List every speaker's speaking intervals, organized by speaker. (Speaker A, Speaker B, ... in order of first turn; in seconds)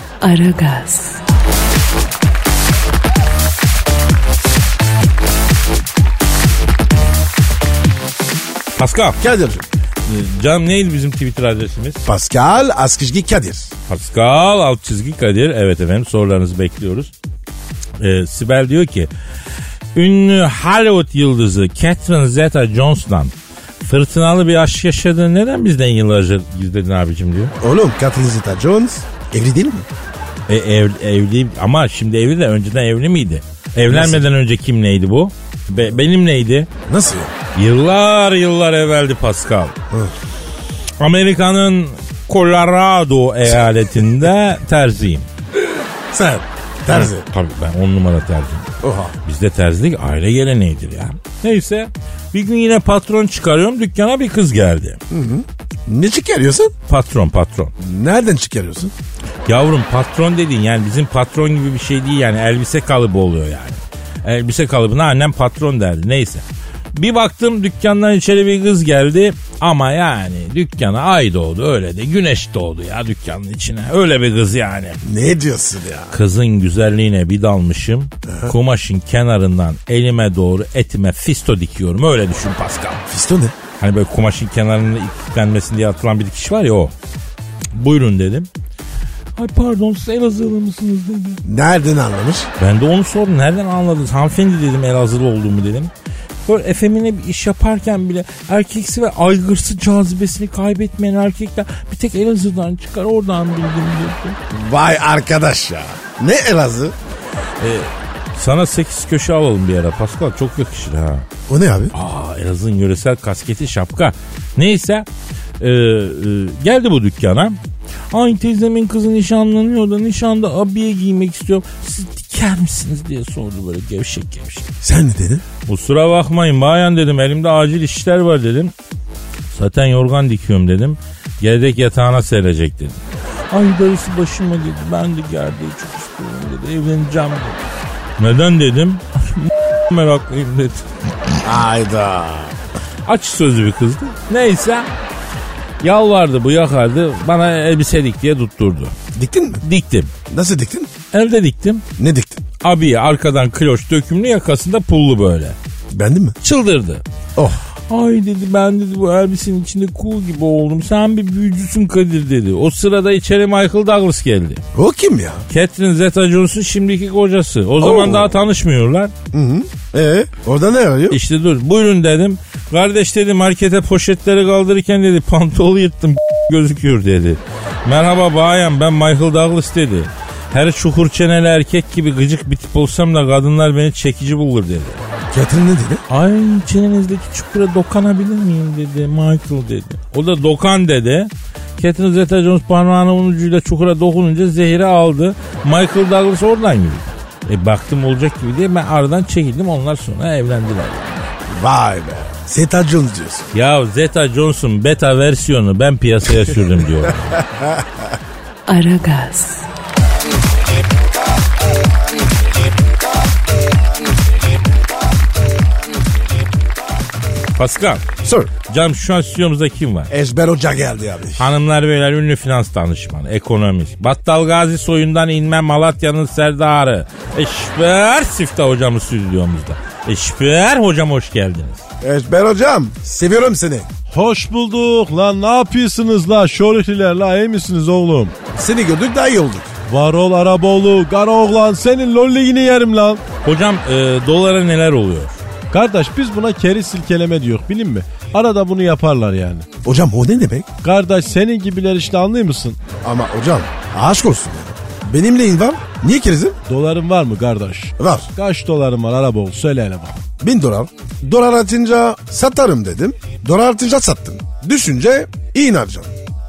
Speaker A: 0.2-1.2, 208.7-209.6
Speaker B: 8.8-9.2, 10.1-12.0, 13.9-17.1, 18.0-19.1, 19.9-27.5, 30.5-36.7, 37.5-39.7, 41.0-45.3, 46.9-48.7, 49.2-55.0, 56.9-57.7, 59.5-75.0, 76.1-83.0, 83.8-86.9, 87.7-88.5, 89.3-91.4, 92.6-95.9, 96.5-104.4, 107.6-111.2, 111.9-115.0, 115.6-117.6, 118.1-124.7, 125.7-128.7, 129.5-133.0, 133.5-137.6, 138.2-141.4, 143.1-144.9, 145.8-148.9, 149.6-150.1, 151.1-151.8, 152.6-155.6, 156.4-157.0, 157.9-164.6, 165.5-169.1, 171.1-185.0, 186.1-201.3, 203.5-207.4, 217.6-218.1, 218.6-220.1, 221.4-231.8, 243.4-245.4
Speaker C: 9.2-9.6, 12.0-13.7, 27.6-29.9, 33.9-34.2, 36.9-37.3, 45.6-47.3, 48.8-49.1, 55.1-56.7, 57.8-58.9, 75.0-76.2, 78.3-78.5, 83.1-83.5, 91.4-92.5, 104.5-106.9, 111.5-111.9, 124.8-125.4, 141.4-142.6, 149.1-149.6, 150.3-150.9, 152.0-152.4, 155.9-156.4, 157.3-157.6, 164.7-165.4, 167.8-168.3, 169.3-171.2, 185.3-186.0, 201.5-203.5, 207.6-207.8, 218.2-218.5, 220.1-221.5, 232.0-233.9, 238.5-239.7, 249.8-250.7, 253.0-256.6, 258.0-258.3, 260.4-266.1
Speaker D: 234.1-238.3, 239.9-243.2, 245.7-249.7, 250.8-252.8, 256.7-260.2